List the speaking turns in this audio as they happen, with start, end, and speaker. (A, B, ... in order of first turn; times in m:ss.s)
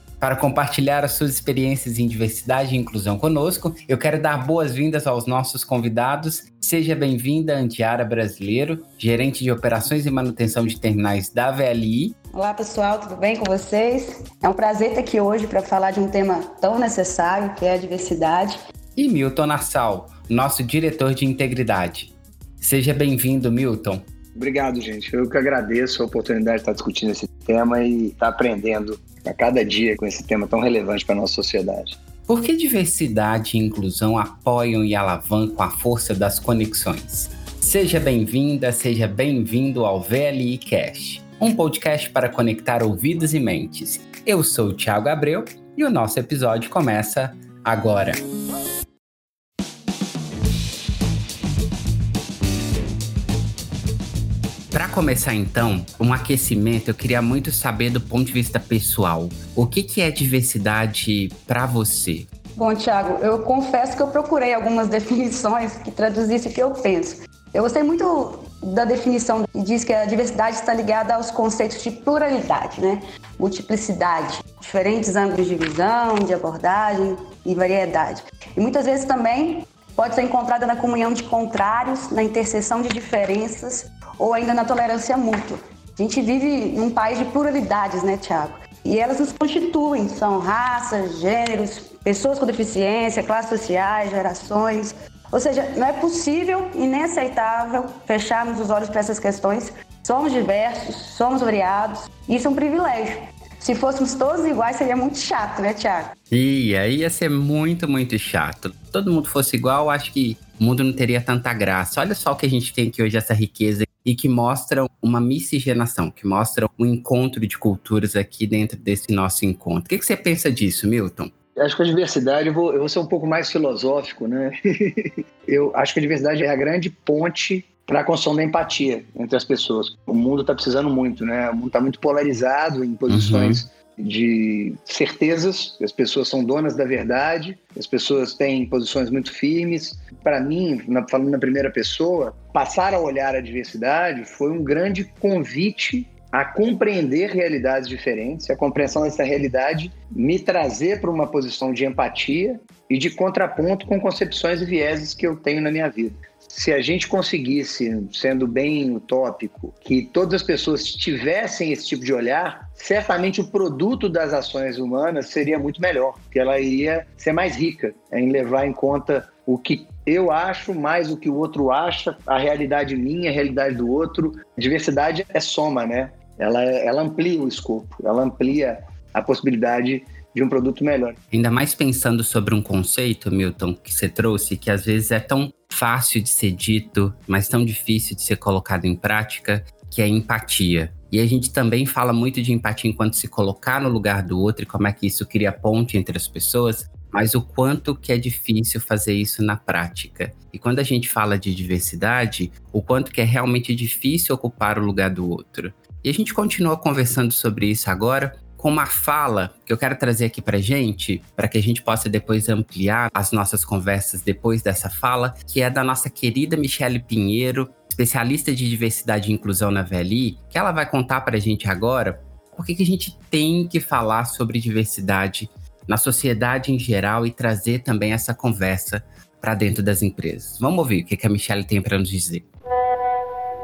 0:00.2-0:12.2 A
0:12.3-0:18.6 B
0:19.0-0:24.0 A
0:24.4-0:32.0 C
0:32.3-0:48.2 A
0:54.7-1:02.3 A
1:02.6-1:46.1 B
1:46.3-2:01.3 A
2:01.6-3:01.2 C
2:13.1-2:13.6 A
3:01.3-3:52.5 A